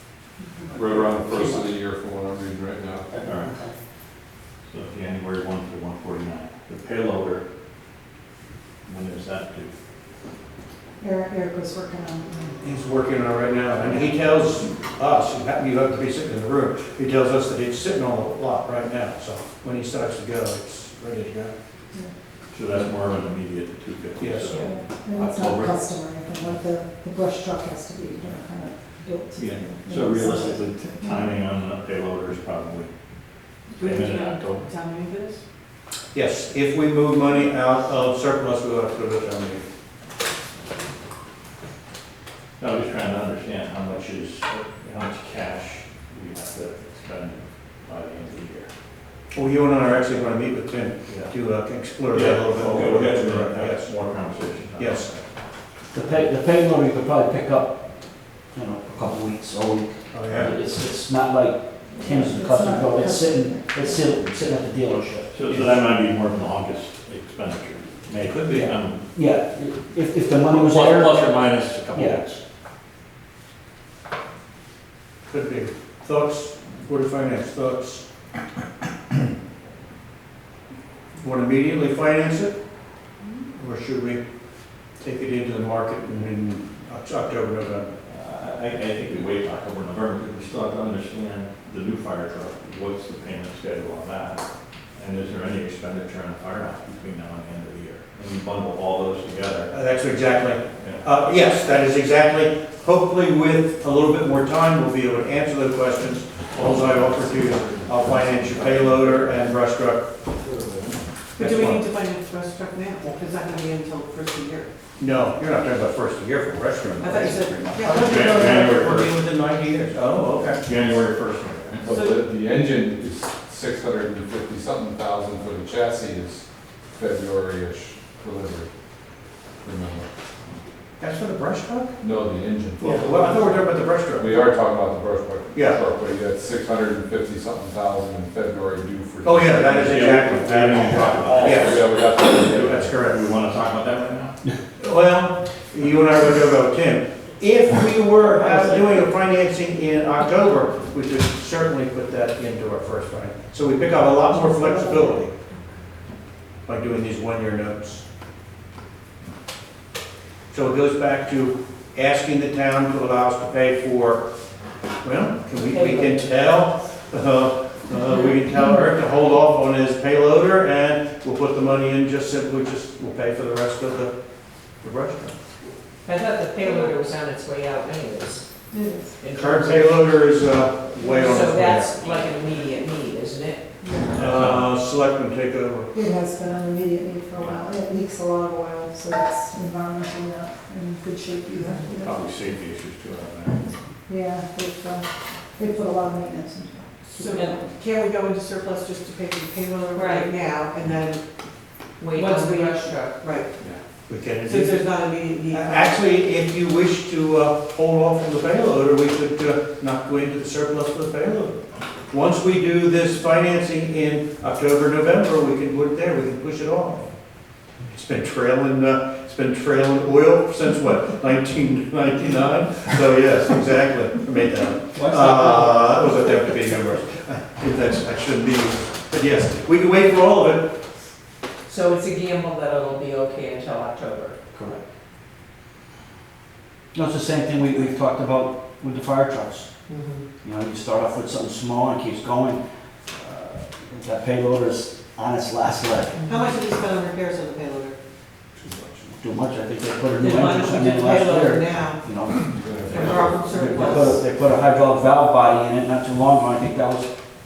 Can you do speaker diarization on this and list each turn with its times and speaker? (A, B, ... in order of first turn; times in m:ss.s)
0:00.7-0:03.1 A
0:01.0-0:01.6 B
0:03.1-0:03.7 C
0:03.2-0:03.5 B
0:04.7-0:07.4 B
0:08.8-0:09.7 B
0:11.0-0:12.6 D
0:12.6-0:21.5 E
0:22.5-0:25.9 B
0:24.2-0:24.7 E
0:24.6-0:31.3 D
0:29.4-0:32.9 B
0:33.8-0:34.7 B
0:33.8-0:35.4 F
0:36.1-0:39.6 E
0:42.6-0:48.7 B
0:49.3-0:53.9 E
0:51.1-0:51.3 B
0:52.1-0:55.2 B
0:54.8-0:55.1 E
0:55.9-0:57.8 C
0:56.0-0:56.3 B
0:58.5-1:05.7 C
1:00.1-1:00.5 E
1:02.0-1:04.0 D
1:05.3-1:09.1 B
1:08.5-1:11.4 C
1:10.4-1:12.4 B
1:11.9-1:12.2 C
1:15.3-1:18.0 E
1:21.2-1:22.6 E
1:23.5-1:24.2 E
1:25.0-1:27.9 E
1:28.0-1:34.4 B
1:34.9-1:39.7 B
1:39.7-1:50.1 E
1:40.8-1:41.1 B
1:50.4-1:50.8 A
1:51.4-1:54.7 F
1:51.4-1:51.9 E
1:55.0-2:00.6 E
1:57.0-1:58.1 F
1:57.9-1:59.2 B
2:00.6-2:01.9 B
2:01.8-2:06.4 A
2:01.9-2:02.2 F
2:06.9-2:08.7 A
2:09.6-2:10.1 A
2:11.0-2:12.0 E
2:12.0-2:13.4 A
2:12.8-2:14.4 E
2:14.1-2:20.2 A
2:15.5-2:15.8 E
2:19.2-2:21.8 E
2:19.6-2:24.4 B
2:21.2-2:22.8 A
2:22.6-2:23.3 E
2:24.8-2:35.3 E
2:28.4-2:28.8 F
2:34.3-2:35.2 D
2:36.6-2:38.0 E
2:40.5-2:44.2 E
2:45.0-2:54.1 E
2:45.6-2:46.3 G
2:54.8-2:55.4 E
2:56.0-2:58.4 G
2:56.6-2:56.9 D
2:58.7-2:59.2 D
2:59.2-3:00.2 G
2:59.3-3:02.0 E
3:01.2-3:03.6 G
3:03.8-3:04.1 D
3:04.1-3:04.7 B
3:04.2-3:05.9 E
3:05.9-3:12.4 D
3:11.9-3:13.8 B
3:14.1-3:17.7 D
3:17.2-3:21.2 F
3:17.2-3:17.6 G
3:19.9-3:20.4 G
3:22.0-3:23.2 G
3:22.0-3:23.5 F
3:24.1-3:37.1 E
3:24.4-3:26.0 F
3:37.9-3:50.7 E
3:44.9-3:47.0 C
3:51.7-3:54.4 G
3:54.5-3:54.8 C
3:56.9-3:59.7 C
3:59.9-4:00.2 G
4:00.4-4:02.6 C
4:03.1-4:06.2 C
4:06.2-4:06.5 G
4:06.3-4:08.0 F
4:09.2-4:17.1 C
4:10.2-4:12.1 F
4:12.4-4:13.5 A
4:12.9-4:14.1 G
4:13.1-4:14.2 F